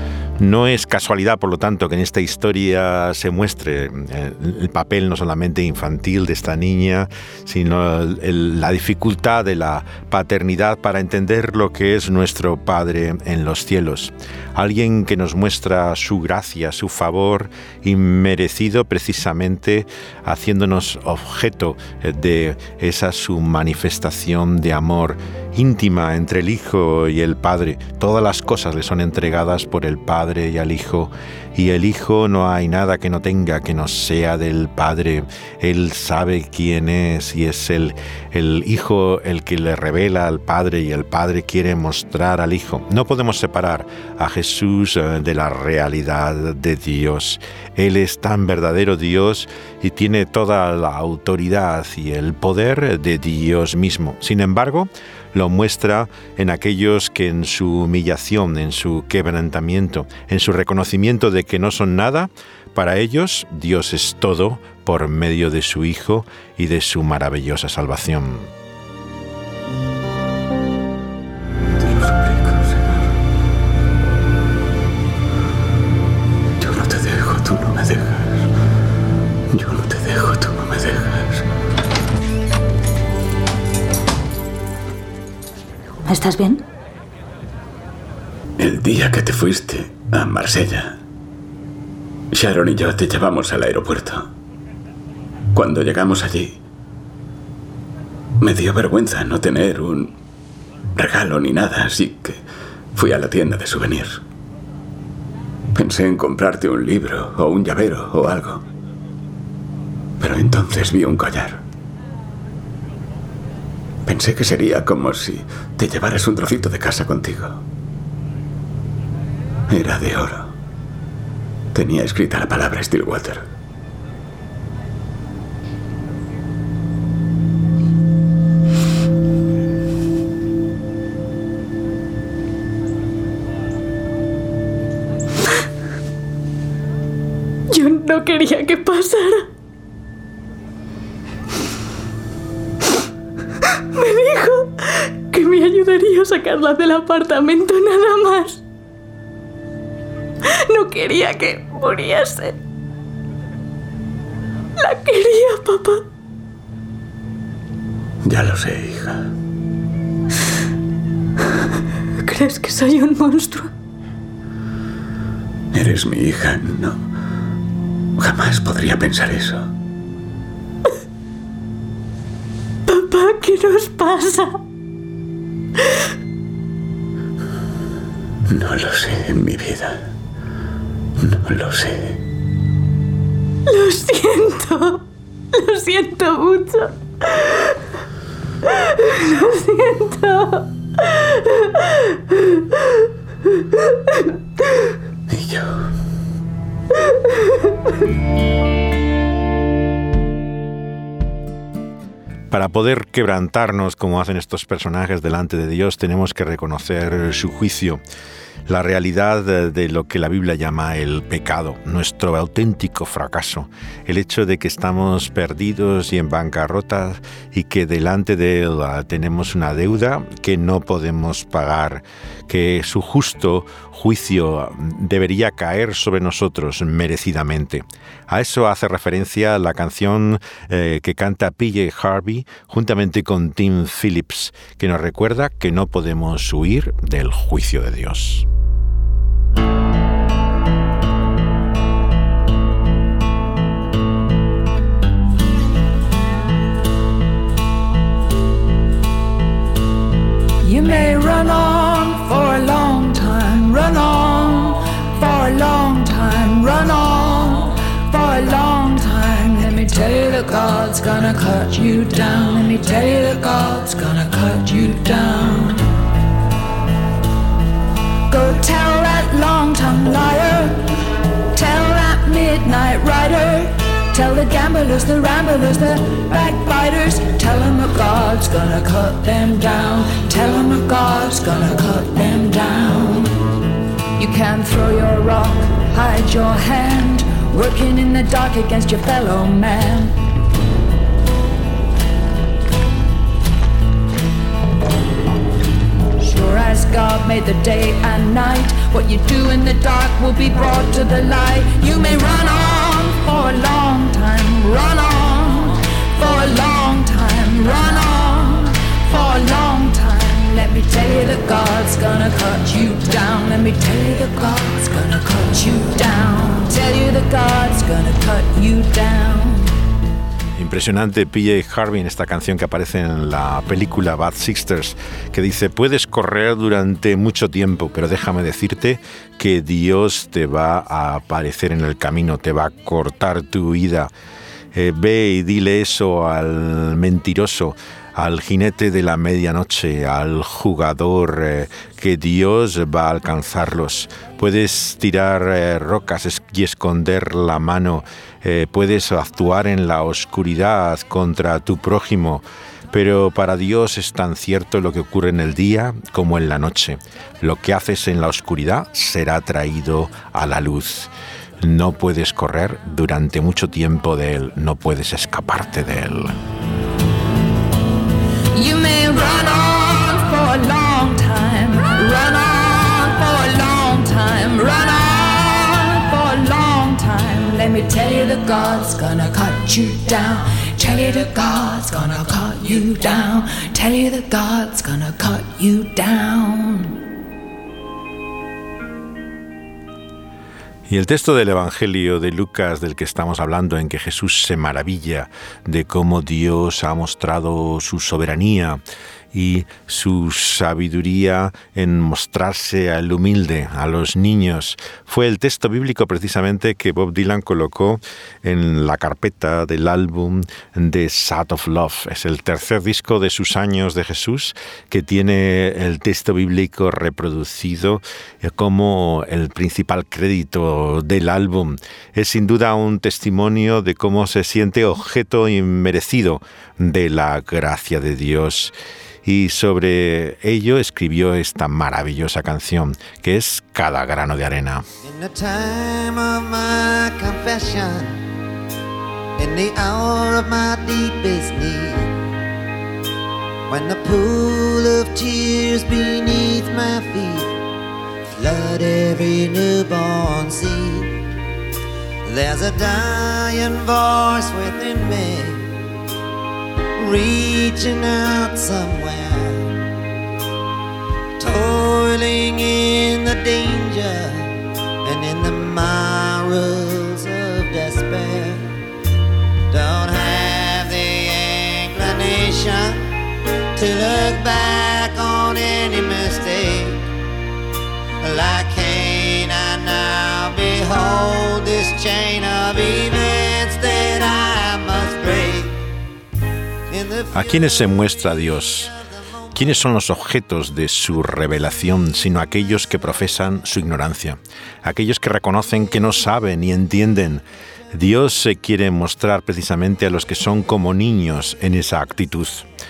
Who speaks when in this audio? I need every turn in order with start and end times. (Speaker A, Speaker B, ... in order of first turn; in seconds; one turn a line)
Speaker A: 0.4-68.5
Speaker B: 71.8-73.1
Speaker B: 76.6-78.5
Speaker B: 79.5-81.5
Speaker C: 86.1-86.6
Speaker B: 88.6-91.0
Speaker B: 92.3-94.3
Speaker B: 95.5-96.6
Speaker B: 98.4-100.1
Speaker B: 101.0-102.4
Speaker B: 102.9-104.2
Speaker B: 105.8-108.6
Speaker B: 110.2-111.6
Speaker B: 114.1-117.6
Speaker B: 119.7-120.5
Speaker B: 121.7-123.5
Speaker C: 137.7-139.5
Speaker C: 143.9-148.6
Speaker C: 150.5-152.6
Speaker C: 154.8-156.0
Speaker B: 158.2-159.3
Speaker C: 162.2-163.7
Speaker B: 165.7-167.0
Speaker B: 168.2-169.7
Speaker C: 172.9-174.6
Speaker B: 178.5-180.1
Speaker B: 181.2-182.2
Speaker C: 183.7-187.8
Speaker C: 188.7-192.4
Speaker B: 195.3-195.9
Speaker A: 202.5-208.0
Speaker A: 208.7-238.4
Speaker D: 250.6-265.9
Speaker D: 268.3-270.8
Speaker D: 271.5-283.4
Speaker D: 284.2-290.1
Speaker D: 296.2-319.7
Speaker A: 320.6-334.1
Speaker A: 334.7-361.1
Speaker A: 361.6-366.4
Speaker D: 368.5-386.9
Speaker A: 390.9-398.8
Speaker A: 399.3-434.9
Speaker E: 435.0-438.2
Speaker E: 439.4-442.1
Speaker E: 443.7-447.6
Speaker E: 448.4-451.2
Speaker E: 452.3-455.8
Speaker E: 457.0-459.8
Speaker E: 461.4-464.5
Speaker E: 465.0-468.7
Speaker E: 469.7-473.1
Speaker E: 473.7-477.1
Speaker E: 478.2-485.8
Speaker E: 486.9-487.6
Speaker A: 487.3-488.9
Speaker A: 489.5-502.7